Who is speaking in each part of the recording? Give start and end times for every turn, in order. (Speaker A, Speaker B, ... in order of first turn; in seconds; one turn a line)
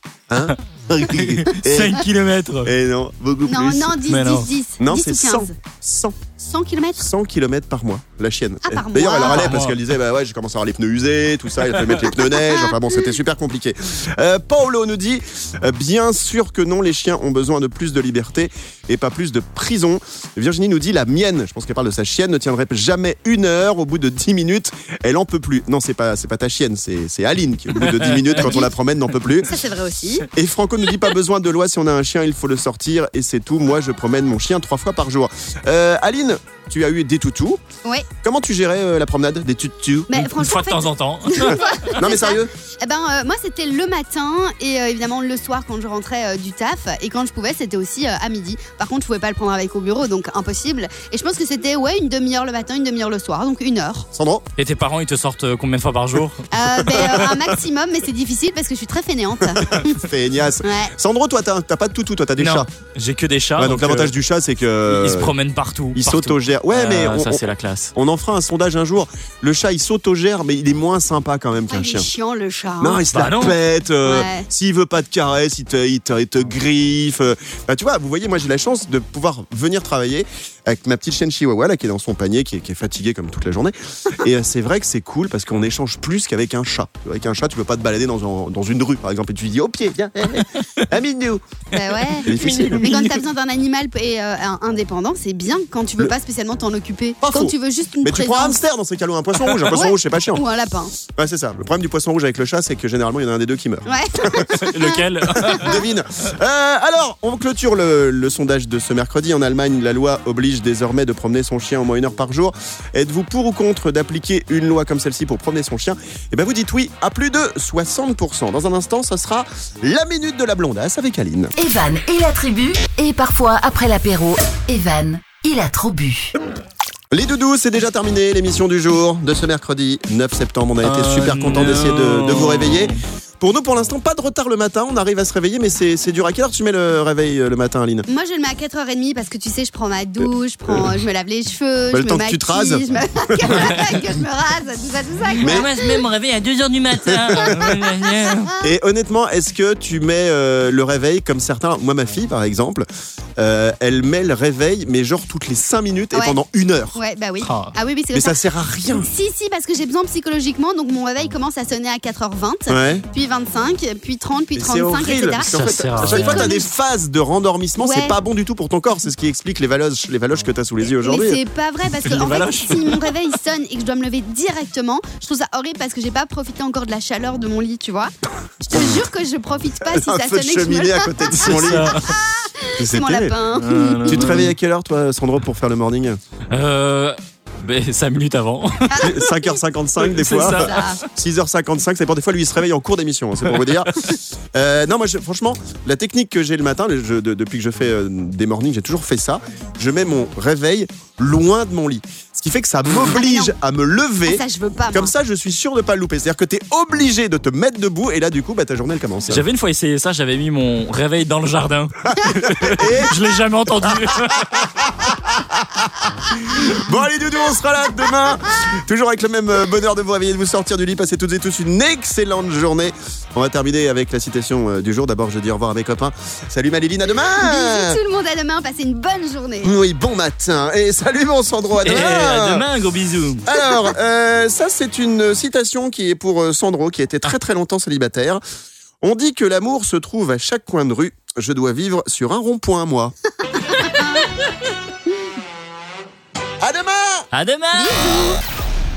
Speaker A: 0.3-2.0
Speaker B: 1.1-2.7
Speaker A: 2.6-4.0
Speaker C: 3.5-5.5
Speaker B: 4.1-4.5
Speaker A: 4.8-6.3
Speaker C: 6.4-7.0
Speaker A: 7.0-29.5
Speaker C: 8.6-9.5
Speaker B: 9.2-9.8
Speaker B: 11.7-12.1
Speaker C: 12.3-12.7
Speaker B: 27.8-28.5
Speaker C: 28.3-28.7
Speaker C: 29.4-30.3
Speaker A: 30.3-37.6
Speaker A: 38.2-40.1
Speaker C: 40.1-54.1
Speaker B: 40.1-42.0
Speaker A: 41.9-42.5
Speaker A: 54.1-54.4
Speaker B: 54.6-56.5
Speaker C: 56.5-60.0
Speaker A: 59.6-62.7
Speaker C: 60.6-60.9
Speaker B: 62.4-64.1
Speaker A: 63.6-65.3
Speaker B: 64.9-67.9
Speaker A: 65.9-72.1
Speaker C: 71.7-73.0
Speaker A: 72.8-91.4
Speaker B: 73.1-73.6
Speaker C: 74.0-74.5
Speaker C: 91.7-98.6
Speaker A: 92.2-93.0
Speaker B: 92.3-93.1
Speaker A: 97.2-100.4
Speaker C: 99.6-100.9
Speaker A: 101.0-104.6
Speaker C: 103.8-105.7
Speaker B: 104.5-105.8
Speaker A: 105.3-121.5
Speaker D: 121.5-126.3
Speaker A: 127.1-138.1
Speaker B: 130.8-133.0
Speaker C: 138.1-146.0
Speaker A: 141.9-142.8
Speaker B: 143.6-143.9
Speaker B: 145.4-148.5
Speaker A: 145.4-145.7
Speaker A: 147.1-147.6
Speaker C: 147.5-148.5
Speaker A: 148.6-152.8
Speaker A: 153.4-157.0
Speaker C: 156.9-158.4
Speaker B: 157.4-157.7
Speaker A: 158.1-159.1
Speaker C: 158.9-166.7
Speaker A: 162.7-163.1
Speaker A: 164.5-171.4
Speaker B: 165.5-166.5
Speaker C: 167.8-168.1
Speaker C: 171.0-184.4
Speaker B: 172.0-173.1
Speaker A: 178.7-179.0
Speaker A: 179.8-181.9
Speaker B: 181.3-182.1
Speaker A: 182.8-183.3
Speaker B: 183.5-184.5
Speaker A: 184.1-186.2
Speaker B: 186.5-189.0
Speaker C: 188.9-189.5
Speaker A: 189.0-209.4
Speaker B: 190.0-190.9
Speaker C: 190.2-191.0
Speaker C: 203.1-203.5
Speaker C: 204.2-205.1
Speaker B: 209.3-214.7
Speaker A: 212.2-213.2
Speaker A: 213.9-228.0
Speaker C: 227.4-229.7
Speaker A: 229.6-232.7
Speaker B: 231.8-233.4
Speaker A: 233.4-238.4
Speaker A: 239.0-243.1
Speaker C: 243.7-244.3
Speaker A: 246.6-247.3
Speaker B: 247.3-248.1
Speaker C: 247.7-248.4